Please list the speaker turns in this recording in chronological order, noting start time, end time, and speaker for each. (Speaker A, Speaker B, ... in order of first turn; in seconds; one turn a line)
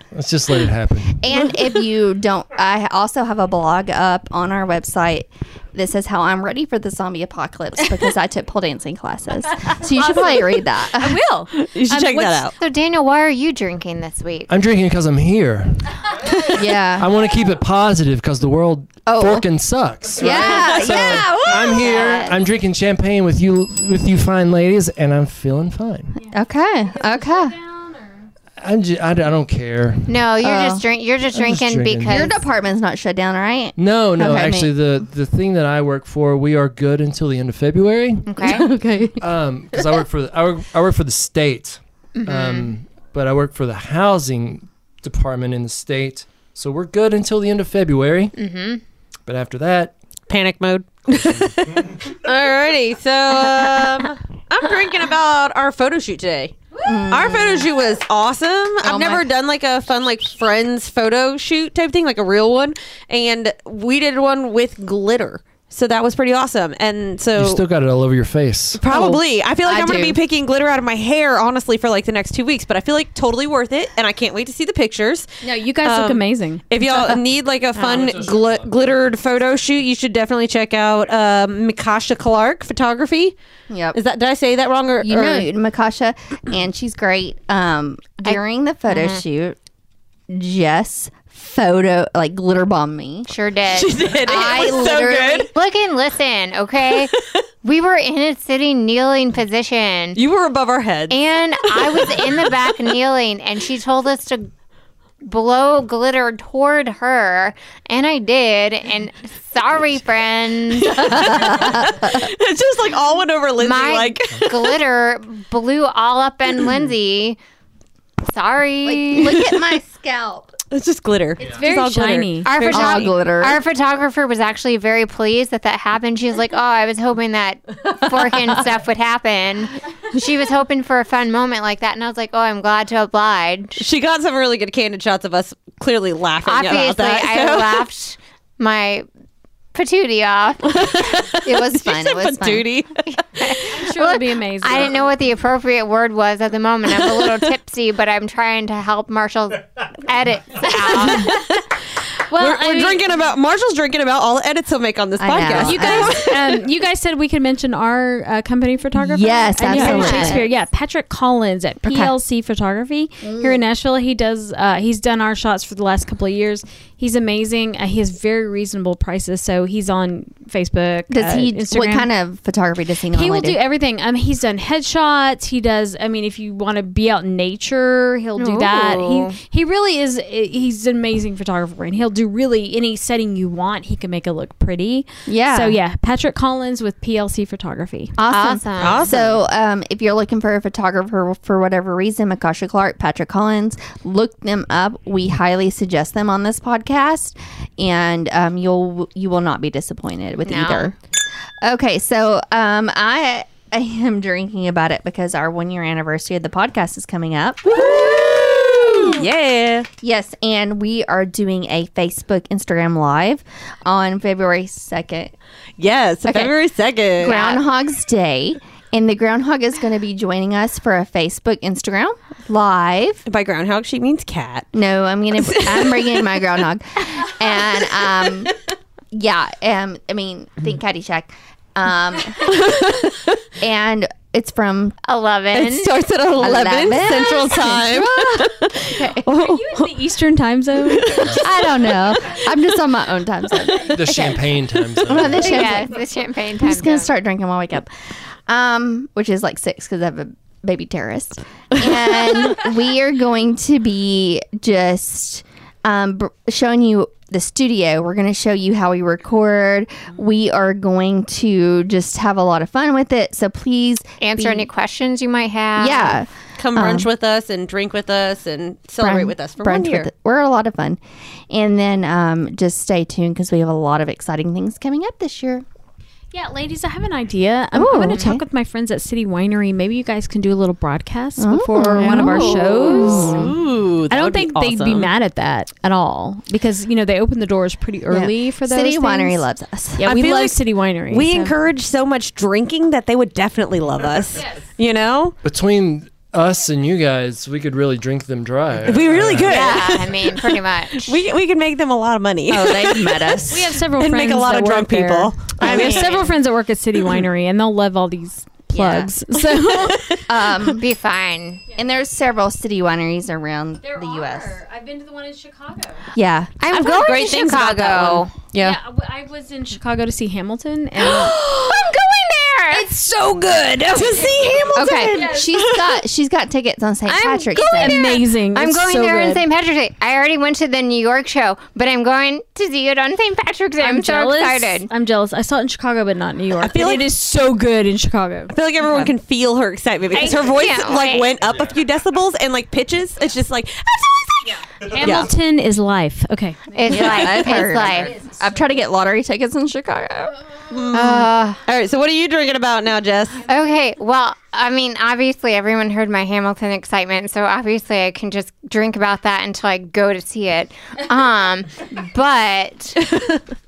Speaker A: 0.1-1.2
Speaker B: 1.2-11.2
Speaker C: 9.8-12.5
Speaker D: 11.5-12.5
Speaker E: 12.6-14.5
Speaker A: 14.5-26.1
Speaker B: 16.5-17.1
Speaker B: 19.1-19.4
Speaker B: 20.2-22.2
Speaker D: 20.2-21.7
Speaker E: 21.5-22.4
Speaker C: 26.1-28.3
Speaker B: 26.3-27.5
Speaker A: 28.6-30.2
Speaker E: 30.1-32.4
Speaker B: 30.4-30.8
Speaker A: 31.3-32.3
Speaker B: 32.1-34.7
Speaker A: 33.8-48.3
Speaker E: 38.3-38.7
Speaker B: 38.4-39.2
Speaker E: 42.1-42.7
Speaker E: 48.4-48.8
Speaker A: 49.2-49.9
Speaker D: 50.3-56.5
Speaker C: 56.7-57.1
Speaker B: 56.8-57.7
Speaker D: 57.1-67.6
Speaker B: 58.8-59.2
Speaker A: 67.3-68.8
Speaker D: 68.8-83.3
Speaker B: 68.9-70.2
Speaker C: 75.4-77.1
Speaker A: 77.8-79.1
Speaker B: 83.7-84.0
Speaker D: 83.9-85.5
Speaker B: 85.0-89.6
Speaker E: 88.2-89.2
Speaker B: 90.3-93.3
Speaker E: 93.3-94.9
Speaker D: 93.7-95.5
Speaker B: 94.2-95.5
Speaker E: 95.5-100.2
Speaker D: 96.9-97.4
Speaker D: 100.1-102.7
Speaker E: 101.1-104.5
Speaker E: 105.2-111.5
Speaker D: 110.7-114.8
Speaker B: 111.0-112.2
Speaker E: 113.6-117.4
Speaker E: 118.2-119.5
Speaker B: 118.8-120.5
Speaker D: 120.7-123.1
Speaker C: 121.4-122.5
Speaker E: 122.4-133.8
Speaker B: 122.6-123.6
Speaker D: 133.8-137.9
Speaker E: 136.4-139.1
Speaker E: 139.7-140.8
Speaker D: 140.7-143.1
Speaker B: 141.4-142.7
Speaker E: 143.3-151.4
Speaker C: 143.7-145.0
Speaker D: 146.9-147.5
Speaker D: 150.8-151.7
Speaker C: 151.0-151.4
Speaker C: 152.3-153.0
Speaker D: 152.3-156.7
Speaker B: 155.2-156.2
Speaker C: 155.6-172.1
Speaker B: 158.9-160.5
Speaker D: 159.7-160.3
Speaker E: 159.8-160.4
Speaker B: 161.8-162.1
Speaker B: 163.2-163.6
Speaker B: 171.1-173.6
Speaker C: 173.1-188.2
Speaker E: 178.4-179.3
Speaker B: 185.2-185.8
Speaker B: 188.2-201.0
Speaker E: 188.2-189.1
Speaker D: 188.8-189.4
Speaker E: 200.4-200.9
Speaker B: 201.6-209.3
Speaker D: 207.7-209.9
Speaker B: 210.0-215.3
Speaker D: 215.8-217.4
Speaker B: 216.2-216.5
Speaker B: 217.2-223.2
Speaker E: 217.2-217.6
Speaker D: 223.2-224.7
Speaker B: 224.7-228.5
Speaker D: 225.3-226.2
Speaker B: 229.1-232.9
Speaker D: 232.4-233.4
Speaker B: 233.6-234.9
Speaker E: 235.1-235.9
Speaker D: 235.5-239.9
Speaker B: 236.4-238.3
Speaker C: 237.5-241.4
Speaker B: 238.8-239.2
Speaker D: 240.8-242.4
Speaker B: 241.2-246.0
Speaker A: 243.8-245.7
Speaker E: 245.4-247.1
Speaker B: 246.6-264.7
Speaker E: 264.2-266.1
Speaker B: 265.8-267.1
Speaker D: 266.6-270.1
Speaker B: 269.0-275.6
Speaker C: 276.3-283.5
Speaker B: 277.7-278.4
Speaker B: 281.4-283.6
Speaker D: 282.0-285.1
Speaker C: 284.1-289.4
Speaker B: 288.1-290.1
Speaker C: 290.0-291.5
Speaker D: 290.0-295.4
Speaker C: 294.3-294.7
Speaker A: 295.4-299.8
Speaker D: 298.8-303.4
Speaker E: 299.4-301.2
Speaker B: 302.5-303.7
Speaker C: 303.4-310.1
Speaker D: 304.0-306.2
Speaker E: 305.6-306.3
Speaker B: 308.7-309.1
Speaker D: 309.5-310.2
Speaker B: 310.2-310.8
Speaker E: 310.6-311.6
Speaker B: 311.8-314.6
Speaker C: 313.8-316.1
Speaker B: 316.1-316.5
Speaker E: 316.6-318.3
Speaker D: 316.7-318.8
Speaker C: 318.6-321.4
Speaker E: 321.1-322.9
Speaker C: 322.7-325.5
Speaker D: 323.9-326.0
Speaker B: 324.7-328.1
Speaker C: 327.1-329.4
Speaker D: 327.6-328.1
Speaker E: 328.1-334.9
Speaker C: 333.8-338.5
Speaker D: 336.6-337.1
Speaker D: 338.5-345.3
Speaker C: 340.1-340.4
Speaker E: 340.1-341.3
Speaker C: 344.4-348.7
Speaker E: 346.7-348.1
Speaker B: 346.9-350.4
Speaker D: 350.7-353.5
Speaker E: 350.9-351.6
Speaker E: 353.5-363.2